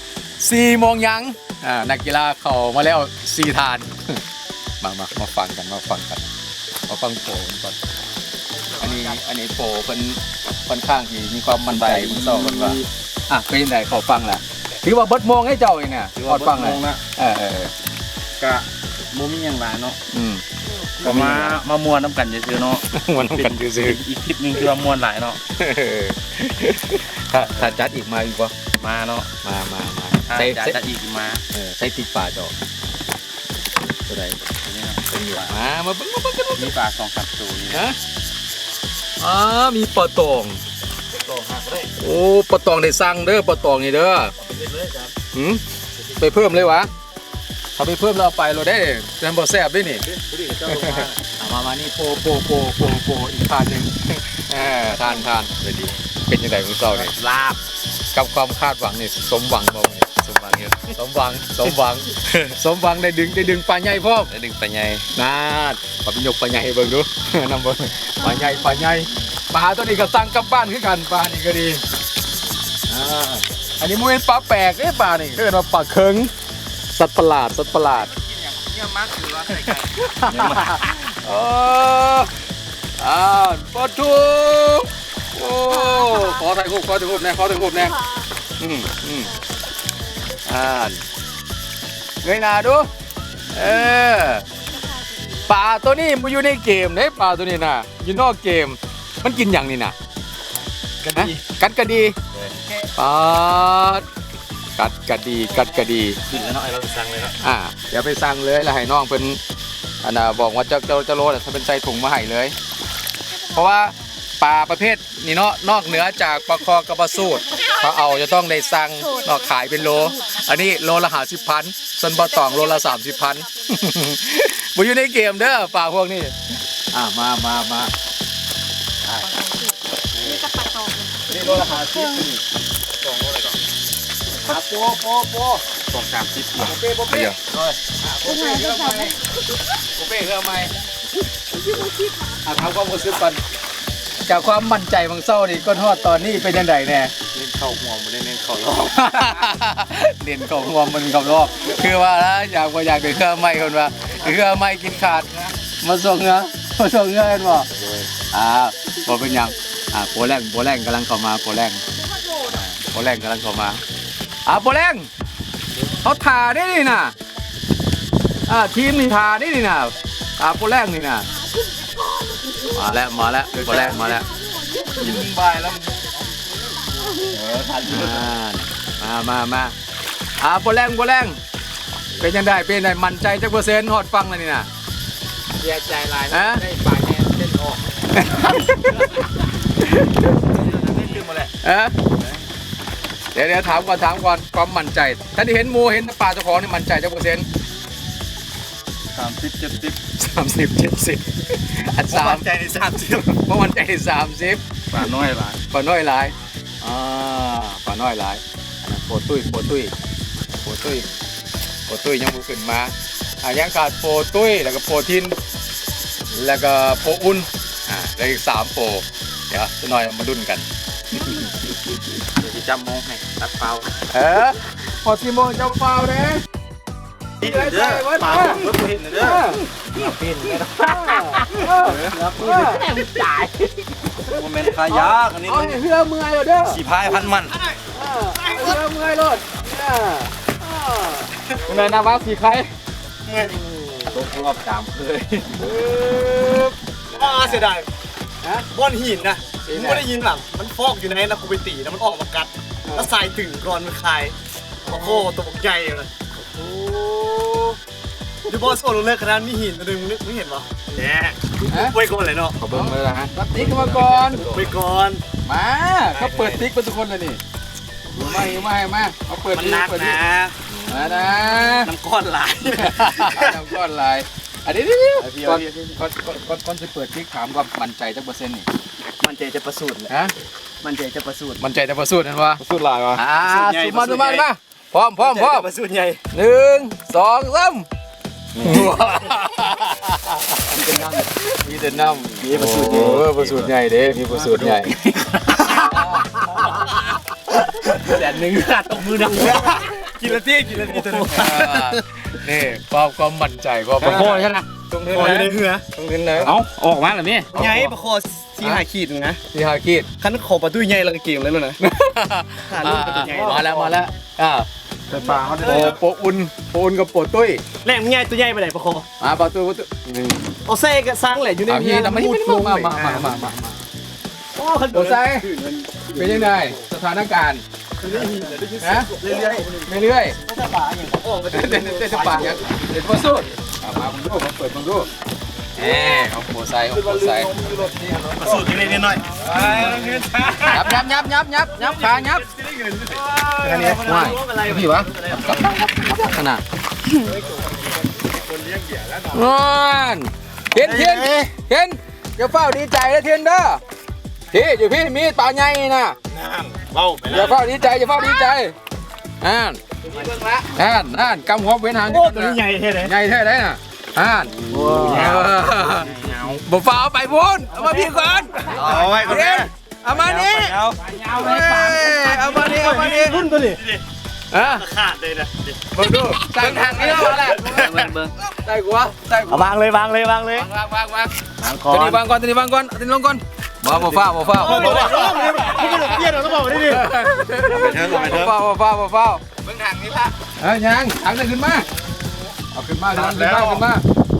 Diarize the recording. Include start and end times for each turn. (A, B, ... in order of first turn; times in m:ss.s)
0:00.4-0:04.2 A
0:04.8-0:06.2 A
0:06.9-0:07.8 A
0:08.8-0:17.7 A
0:11.7-0:12.9 B
0:16.2-0:17.0 B
0:18.4-0:20.0 B
0:20.1-0:20.4 A
0:21.0-0:25.4 B
0:21.0-0:21.6 A
0:22.9-0:24.0 A
0:25.6-0:28.5 A
0:28.8-0:29.3 B
0:29.4-0:30.8 A
0:30.3-0:31.4 B
0:31.5-0:32.5 A
0:34.1-0:34.4 A
0:34.5-0:35.6 B
0:35.4-0:36.7 A
0:36.6-0:37.8 B
0:37.7-0:38.0 A
0:39.2-0:40.6 A
0:41.2-0:41.9 B
0:42.0-0:44.3 A
0:44.4-0:45.1 B
0:45.3-0:45.6 A
0:46.1-0:46.9 A
0:47.8-0:50.0 A
0:50.0-0:51.2 B
0:50.7-0:55.5 A
0:54.9-0:56.0 B
0:56.3-0:57.1 A
0:57.0-0:57.6 B
0:58.1-1:00.1 A
1:00.2-1:01.0 B
1:00.9-1:04.3 A
1:02.3-1:02.6 B
1:04.3-1:05.1 B
1:05.2-1:11.8 A
1:12.9-1:16.3 A
1:16.9-1:18.1 A
1:18.1-1:20.9 B
1:20.0-1:22.3 A
1:23.0-1:28.0 A
1:25.9-1:26.4 C
1:28.6-1:29.3 A
1:30.5-1:31.0 A
1:32.2-1:32.9 A
1:33.5-1:34.4 A
1:34.8-1:35.3 C
1:35.5-1:40.0 A
1:41.0-1:41.3 B
1:41.1-1:42.2 A
1:43.0-1:44.1 A
1:44.8-1:46.2 A
1:46.3-1:47.4 B
1:47.4-1:49.4 A
1:50.0-1:52.6 A
1:53.5-2:06.4 A
2:06.9-2:07.9 A
2:10.2-2:10.4 A
2:10.2-2:12.2 C
2:11.3-2:12.4 B
2:13.0-2:13.6 B
2:14.4-2:15.6 A
2:15.8-2:17.7 B
2:16.6-2:17.4 A
2:18.0-2:19.2 A
2:18.2-2:19.2 C
2:20.0-2:20.7 A
2:21.5-2:22.3 C
2:22.4-2:23.4 A
2:24.2-2:27.1 A
2:27.3-2:29.3 B
2:28.8-2:35.3 A
2:35.8-2:37.7 A
2:37.8-2:38.1 B
2:38.3-2:41.8 A
2:42.5-2:43.8 A
2:44.5-2:45.1 A
2:46.0-2:47.2 A
2:48.5-2:51.3 A
2:51.9-2:52.7 C
2:52.7-2:54.3 A
2:53.5-2:54.2 B
2:54.3-2:55.0 C
2:55.0-2:56.2 B
2:57.2-2:58.3 B
2:57.9-2:59.7 A
3:00.4-3:01.4 A
3:02.2-3:04.7 A
3:05.6-3:07.8 B
3:06.3-3:06.6 A
3:08.1-3:09.2 A
3:09.8-3:10.3 A
3:10.5-3:11.5 B
3:11.6-3:11.9 A
3:13.3-3:17.5 A
3:19.1-3:20.0 B
3:20.2-3:22.5 A
3:22.1-3:23.3 B
3:23.2-3:24.6 A
3:24.9-3:25.6 B
3:25.7-3:29.9 A
3:30.6-3:31.1 A
3:31.9-3:35.4 A
3:36.3-3:41.4 A
3:42.4-3:43.9 B
3:44.1-3:46.4 A
3:47.4-3:49.6 A
3:47.4-3:50.6 B
3:48.3-3:48.7 D
3:50.4-3:53.0 A
3:51.7-3:52.9 B
3:52.1-3:53.0 D
3:53.1-3:53.7 C
3:54.2-3:55.8 B
3:54.3-3:56.8 A
3:56.6-3:57.6 B
3:57.1-3:57.8 D
3:57.9-4:00.3 A
3:58.4-3:58.8 D
4:00.9-4:02.7 A
4:03.3-4:03.5 D
4:03.7-4:04.1 A
4:04.1-4:05.6 B
4:05.6-4:07.7 A
4:07.2-4:07.9 D
4:08.7-4:14.3 D
4:09.6-4:10.0 A
4:14.9-4:16.1 D
4:14.9-4:15.2 A
4:16.4-4:17.8 A
4:18.5-4:22.6 D
4:21.7-4:22.0 A
4:22.6-4:24.8 B
4:22.7-4:24.5 A
4:24.5-4:25.2 D
4:25.5-4:27.4 A
4:26.1-4:26.6 B
4:28.2-4:30.2 A
4:29.5-4:30.6 D
4:30.7-4:31.3 B
4:30.9-4:31.9 A
4:31.8-4:33.6 D
4:32.8-4:38.7 A
4:35.2-4:36.0 D
4:39.2-4:40.1 D
4:40.8-4:41.6 D
4:41.6-4:42.6 A
4:42.6-4:43.2 B
4:43.2-4:45.7 A
4:43.4-4:44.5 D
4:45.2-4:46.2 D
4:46.3-4:47.9 A
4:48.6-4:48.9 B
4:48.6-4:50.8 A
4:50.7-4:51.3 D
4:51.5-4:55.0 A
4:52.4-4:53.2 D
4:52.4-4:55.1 B
4:55.1-4:56.7 D
4:55.5-4:56.7 A
4:57.6-5:02.0 D
5:01.3-5:04.6 A
5:04.0-5:06.6 B
5:04.0-5:05.8 D
5:06.4-5:09.4 D
5:07.5-5:07.9 A
5:09.5-5:10.1 A
5:10.2-5:11.8 D
5:11.8-5:14.7 A
5:12.7-5:14.0 D
5:15.1-5:16.0 B
5:15.1-5:16.0 D
5:15.6-5:17.6 A
5:17.8-5:19.1 D
5:19.2-5:20.4 A
5:20.7-5:23.4 D
5:21.7-5:23.8 A
5:24.6-5:26.8 D
5:24.9-5:25.5 A
5:26.1-5:27.6 A
5:28.0-5:29.8 D
5:28.0-5:29.5 B
5:28.8-5:29.1 A
5:29.7-5:30.4 A
5:30.4-5:32.6 D
5:31.5-5:33.5 A
5:33.8-5:34.4 B
5:34.0-5:35.1 A
5:35.8-5:37.5 A
5:36.9-5:41.0 B
5:38.4-5:40.1 D
5:39.5-5:39.9 A
5:40.6-5:42.5 A
5:41.9-5:45.9 D
5:43.6-5:46.6 A
5:47.3-5:49.6 B
5:49.3-5:53.8 A
5:50.8-5:51.4 B
5:54.5-5:56.2 A
5:56.3-5:57.6 B
5:57.3-5:58.8 A
5:59.4-5:59.8 A
6:00.1-6:00.6 D
6:00.7-6:04.5 A
6:02.1-6:03.1 D
6:04.6-6:05.5 D
6:04.7-6:06.6 B
6:05.1-6:13.4 A
6:06.0-6:06.5 D
6:07.7-6:09.6 D
6:08.7-6:11.0 B
6:11.0-6:14.0 D
6:14.5-6:14.9 A
6:14.7-6:15.8 D
6:15.9-6:19.7 A
6:16.6-6:18.3 B
6:16.8-6:18.1 D
6:19.5-6:20.7 D
6:20.5-6:21.4 A
6:21.6-6:22.2 D
6:21.9-6:29.4 A
6:24.0-6:26.2 B
6:24.5-6:27.1 D
6:27.7-6:28.6 B
6:29.6-6:30.3 B
6:30.6-6:31.9 A
6:32.7-6:34.0 A
6:33.1-6:33.8 B